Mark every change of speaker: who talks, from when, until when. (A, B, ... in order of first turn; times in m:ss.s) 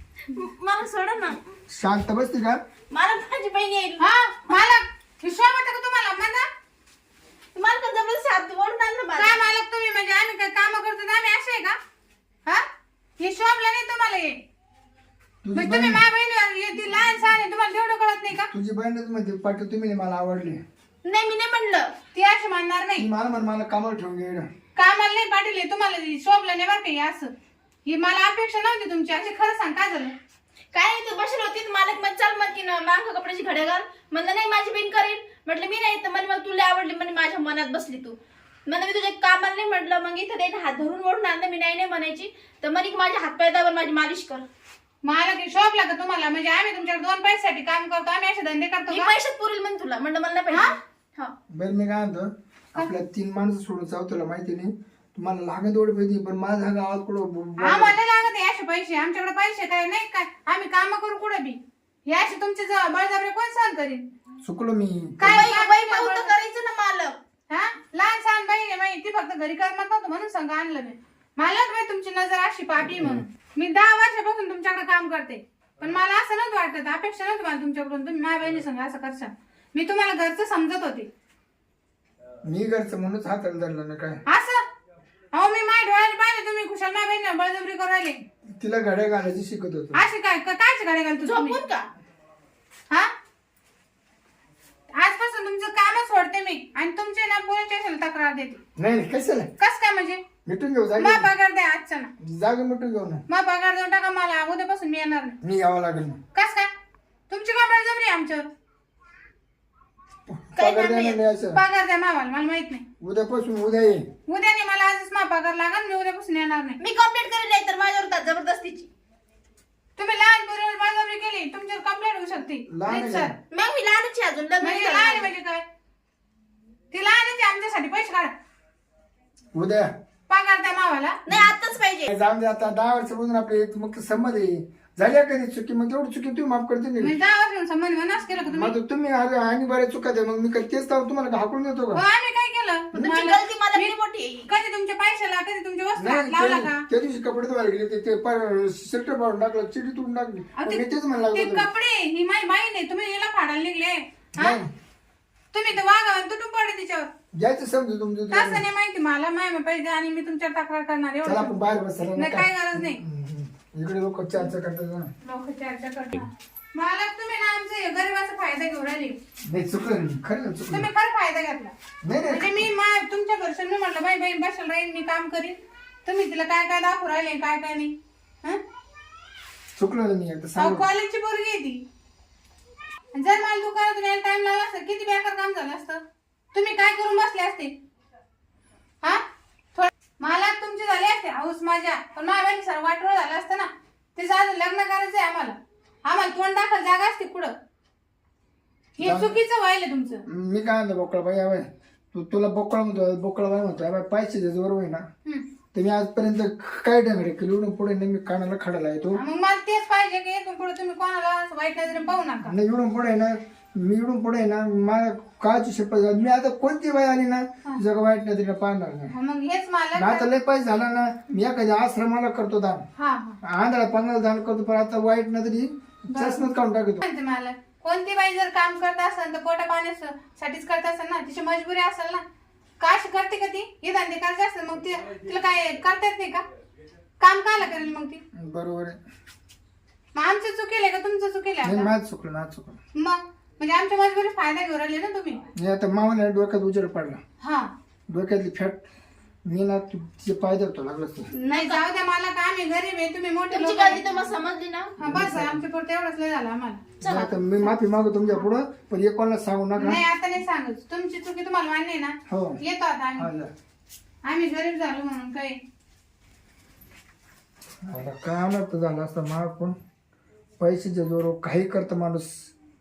0:00.3-0:01.4 A
0:01.7-0:02.6 B
0:02.9-0:04.6 A
0:04.0-0:06.5 C
0:07.6-0:09.5 A
0:09.2-0:11.8 C
0:13.2-0:14.4 C
0:15.4-0:16.1 B
0:15.5-0:18.5 C
0:18.3-0:20.6 B
0:21.0-0:21.9 A
0:22.1-0:23.1 C
0:23.0-0:24.5 B
0:24.8-0:27.3 C
0:27.9-0:30.1 C
0:30.7-0:44.4 A
0:45.0-0:49.1 C
0:48.9-0:51.3 A
0:51.5-0:58.0 B
0:57.6-1:01.6 C
1:02.1-1:04.1 C
1:04.4-1:05.5 B
1:05.2-1:06.3 C
1:05.3-1:07.2 A
1:07.5-1:21.1 C
1:12.8-1:13.2 B
1:22.4-1:24.2 B
1:24.3-1:24.6 C
1:25.3-1:28.2 C
1:28.6-1:30.1 B
1:29.9-1:31.6 C
1:31.2-1:31.9 A
1:34.9-1:38.6 C
1:38.8-1:39.5 B
1:39.6-1:40.2 C
1:40.4-1:41.3 B
1:41.0-1:42.1 C
1:42.2-1:43.2 B
1:43.3-1:45.4 C
1:45.4-1:46.2 B
1:46.3-1:46.7 C
1:47.3-1:48.5 C
1:50.3-1:51.6 B
1:50.6-1:51.2 A
1:51.5-1:52.8 C
1:53.0-1:54.1 B
1:54.3-1:56.8 C
1:56.8-1:58.9 A
2:00.0-2:03.4 C
2:02.7-2:03.4 B
2:03.5-2:05.3 A
2:04.6-2:05.6 C
2:06.9-2:08.3 C
2:09.5-2:09.9 B
2:10.3-2:11.2 C
2:11.3-2:12.1 A
2:12.1-2:17.2 B
2:17.0-2:18.7 C
2:18.5-2:22.0 B
2:21.9-2:23.9 C
2:23.0-2:24.5 A
2:24.5-2:26.9 C
2:26.0-2:31.7 B
2:30.6-2:34.6 C
2:34.4-2:34.7 B
2:35.5-2:37.1 C
2:37.3-2:38.6 B
2:38.3-2:41.5 C
2:41.2-2:45.1 B
2:42.2-2:43.0 C
2:45.2-2:49.2 C
2:49.5-2:50.9 B
2:50.7-2:51.7 C
2:52.0-2:52.7 B
2:52.3-2:58.6 C
2:59.8-3:00.9 B
3:00.6-3:01.8 C
3:03.1-3:06.0 C
3:06.5-3:07.7 C
3:09.8-3:17.5 C
3:19.0-3:20.2 C
3:19.0-3:19.4 B
3:20.3-3:25.0 B
3:25.7-3:29.2 B
3:29.2-3:32.5 C
3:32.4-3:39.1 B
3:39.1-3:40.3 C
3:40.0-3:42.8 B
3:43.0-3:43.4 C
3:43.4-3:47.0 B
3:46.1-3:46.5 C
3:47.0-3:52.2 C
3:52.8-3:56.4 C
3:57.2-3:58.2 C
3:58.4-3:59.0 B
4:00.2-4:01.9 C
4:01.6-4:02.8 B
4:03.0-4:05.4 C
4:05.6-4:07.2 B
4:07.4-4:07.7 C
4:08.1-4:08.8 B
4:09.4-4:11.3 B
4:11.3-4:11.8 A
4:11.4-4:14.1 C
4:13.5-4:15.0 A
4:15.0-4:16.8 C
4:15.0-4:15.6 B
4:17.0-4:17.7 A
4:17.0-4:20.0 B
4:19.8-4:23.3 C
4:22.3-4:22.6 B
4:23.2-4:23.5 B
4:24.2-4:25.6 C
4:27.8-4:29.8 B
4:30.6-4:32.5 B